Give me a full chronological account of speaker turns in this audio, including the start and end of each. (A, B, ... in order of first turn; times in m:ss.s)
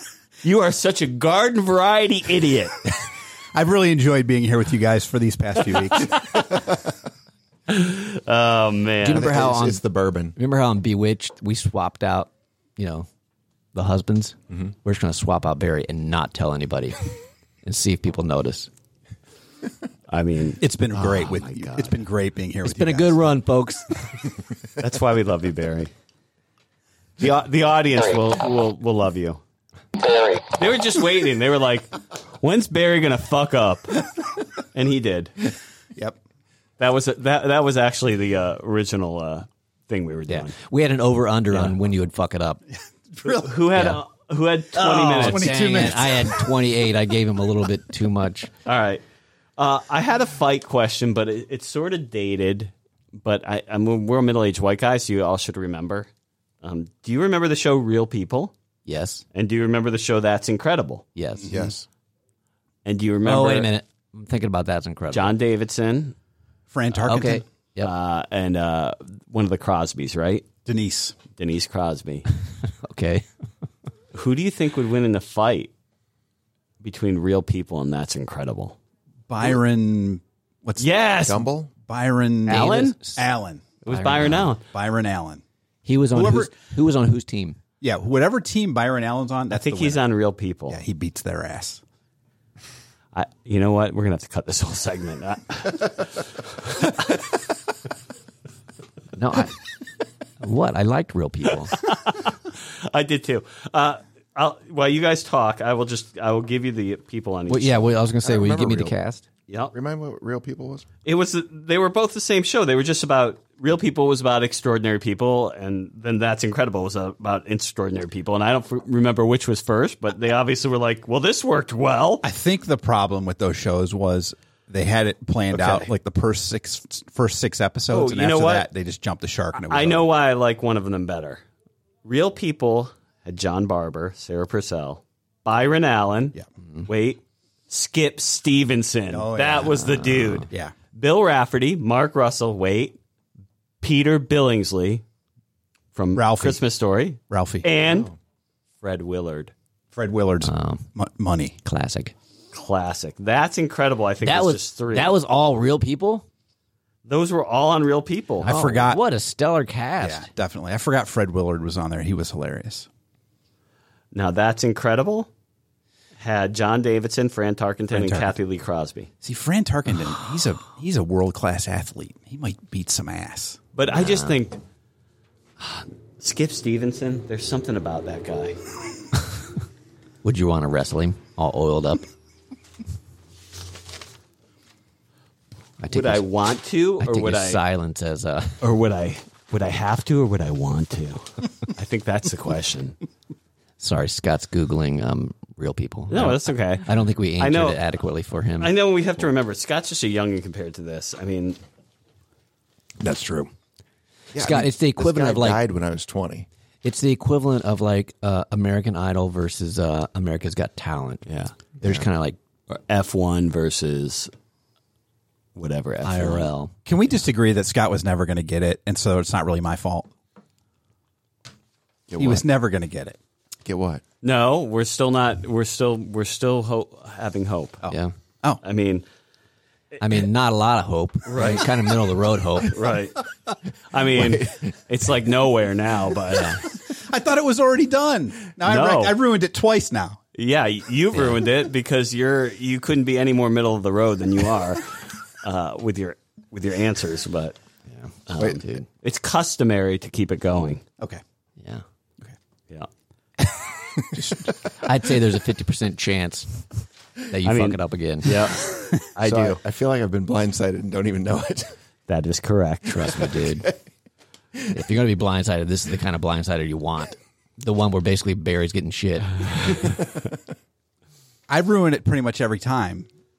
0:00.4-0:02.8 A
0:03.5-0:06.5 B
0:07.7-0:09.4 A
0:09.0-0:09.8 C
0:09.1-0:10.4 D
0:10.4-0:13.1 C
0:13.7-0:17.1 C
0:17.6-0:18.7 C
0:20.1-0:22.0 A
0:20.6-0:23.4 B
0:22.6-0:23.9 C
0:24.8-0:25.9 A
0:27.2-0:29.4 A
0:30.3-0:34.0 A
0:34.7-0:35.3 A
0:36.8-0:40.5 A
0:40.3-0:42.6 C
0:43.1-0:43.5 B
0:43.2-0:46.0 A
0:43.7-0:44.0 C
0:44.7-0:46.5 B
0:45.2-0:48.5 C
0:48.6-0:49.0 A
0:49.6-0:56.1 A
0:56.6-0:58.5 A
0:58.9-0:59.2 C
0:59.3-1:01.0 A
1:01.1-1:01.6 C
1:01.4-1:01.7 B
1:01.5-1:01.8 D
1:02.8-1:03.7 A
1:03.2-1:05.4 C
1:05.1-1:06.1 A
1:06.7-1:07.4 B
1:07.0-1:07.9 C
1:07.8-1:10.5 A
1:10.6-1:11.1 B
1:11.4-1:12.3 A
1:12.6-1:13.3 C
1:14.1-1:15.7 A
1:16.8-1:18.8 A
1:19.3-1:20.9 B
1:20.8-1:21.5 A
1:21.3-1:21.7 D
1:21.8-1:23.6 B
1:22.5-1:23.0 A
1:22.5-1:23.2 C
1:23.8-1:24.6 A
1:23.9-1:24.5 C
1:24.7-1:25.4 B
1:25.8-1:27.6 C
1:26.1-1:26.6 B
1:27.8-1:30.0 B
1:29.5-1:30.8 A
1:30.7-1:31.8 B
1:33.1-1:36.9 A
1:39.1-1:39.6 C
1:40.4-1:41.7 C
1:41.7-1:48.0 A
1:47.5-1:49.2 C
1:48.2-1:49.0 D
1:49.5-1:49.7 A
1:49.7-1:50.9 D
1:51.0-2:02.2 A
2:02.2-2:10.1 B
2:05.5-2:05.9 A
2:07.9-2:08.7 A
2:09.6-2:11.4 A
2:12.0-2:23.0 A
2:19.1-2:19.8 B
2:19.7-2:20.4 C
2:23.8-2:25.0 A
2:25.9-2:28.1 A
2:26.1-2:26.6 B
2:27.3-2:27.7 B
2:27.8-2:28.2 D
2:28.8-2:29.5 A
2:29.9-2:31.6 B
2:30.4-2:30.9 C
2:31.6-2:32.1 C
2:32.5-2:35.1 A
2:34.2-2:36.2 C
2:37.1-2:38.5 A
2:38.4-2:39.0 B
2:38.4-2:40.3 C
2:40.0-2:42.9 B
2:44.1-2:45.3 A
2:46.2-2:49.1 A
2:47.9-2:48.3 B
2:49.2-2:53.6 B
2:53.7-2:54.6 A
2:53.9-2:54.4 C
2:55.6-2:58.6 A
3:00.2-3:02.1 C
3:05.8-3:06.2 C
3:05.9-3:07.6 A
3:07.0-3:08.6 C
3:08.6-3:13.0 A
3:13.8-3:18.7 C
3:16.1-3:16.9 A
3:17.4-3:17.8 A
3:18.6-3:21.6 A
3:23.0-3:23.5 B
3:24.3-3:26.5 D
3:24.4-3:25.6 C
3:26.8-3:31.2 C
3:31.2-3:31.5 A
3:31.8-3:32.4 C
3:32.7-3:34.3 A
3:35.5-3:36.5 A
3:36.0-3:36.8 C
3:36.9-3:40.1 B
3:42.1-3:42.4 D
3:42.2-3:43.2 B
3:43.6-3:44.0 D
3:44.2-3:47.8 A
3:47.8-3:48.6 B
3:48.6-3:49.0 A
3:50.0-3:52.8 C
3:51.2-3:51.7 A
3:52.6-3:53.2 A
3:53.9-3:56.6 A
3:54.2-3:54.5 D
3:56.3-3:56.6 C
3:56.7-4:00.2 B
3:58.6-3:59.2 A
4:00.4-4:04.9 A
4:01.1-4:01.4 C
4:05.4-4:07.6 A
4:07.9-4:08.8 C
4:08.3-4:10.8 A
4:11.6-4:11.8 C
4:14.0-4:14.4 B
4:14.8-4:18.5 C
4:17.4-4:18.6 A
4:19.1-4:19.6 A
4:19.2-4:21.7 D
4:22.1-4:23.2 A
4:22.9-4:23.7 C
4:23.2-4:23.7 D
4:24.7-4:29.9 C
4:31.5-4:33.1 B